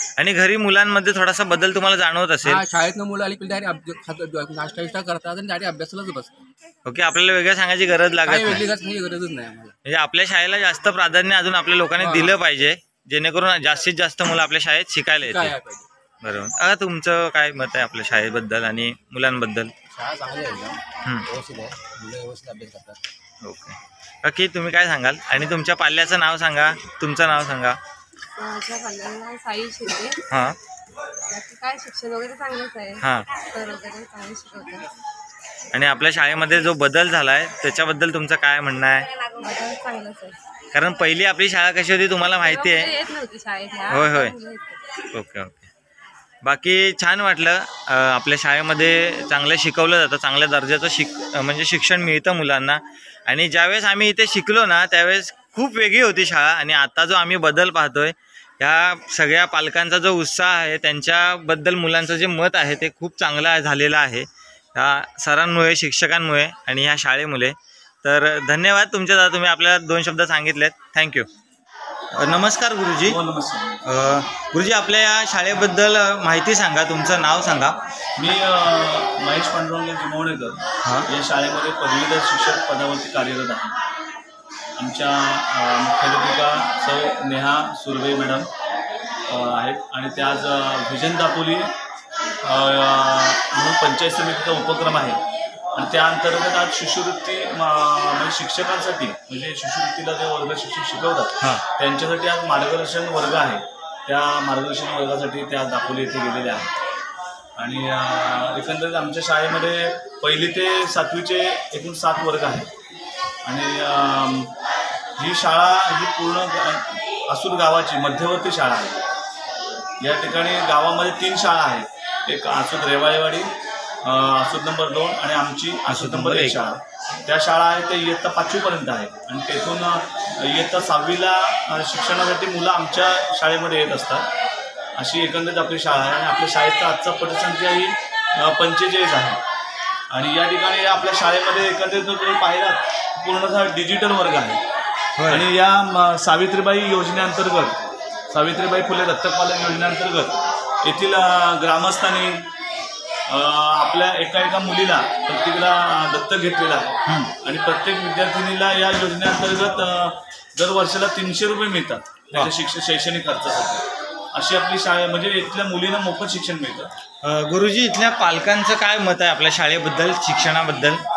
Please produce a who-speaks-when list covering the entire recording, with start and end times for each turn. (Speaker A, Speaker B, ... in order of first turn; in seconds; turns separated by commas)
Speaker A: 0.2-2.7, Speaker B: 2.4-6.5, Speaker A: 6.8-8.7, Speaker B: 8.2-9.8, Speaker A: 9.9-15.6, Speaker B: 12.0-12.4, Speaker B: 15.2-15.9, Speaker A: 16.2-19.7, Speaker B: 19.9-23.0, Speaker A: 23.4-27.8, Speaker C: 28.4-30.2, Speaker A: 30.3-30.6, Speaker C: 31.3-34.9, Speaker A: 33.0-33.3, Speaker A: 35.7-39.1, Speaker C: 39.4-40.4, Speaker A: 40.7-42.9, Speaker C: 42.4-44.8, Speaker A: 43.9-44.4, Speaker A: 45.0-45.7, Speaker A: 46.4-71.3, Speaker A: 72.1-73.2, Speaker D: 73.0-73.8, Speaker A: 73.9-77.8, Speaker D: 78.2-83.8, Speaker A: 80.8-81.1, Speaker D: 84.8-88.5, Speaker D: 89.3-91.7, Speaker D: 92.4-95.2, Speaker D: 95.8-106.7, Speaker D: 107.6-112.7, Speaker D: 113.5-114.5, Speaker D: 115.2-119.0, Speaker D: 120.0-123.5, Speaker D: 124.0-134.3, Speaker A: 125.9-126.6, Speaker D: 135.0-139.4, Speaker D: 140.1-144.6, Speaker A: 145.2-145.5, Speaker D: 145.3-152.4, Speaker D: 153.3-166.9, Speaker A: 157.1-157.3, Speaker A: 167.2-171.0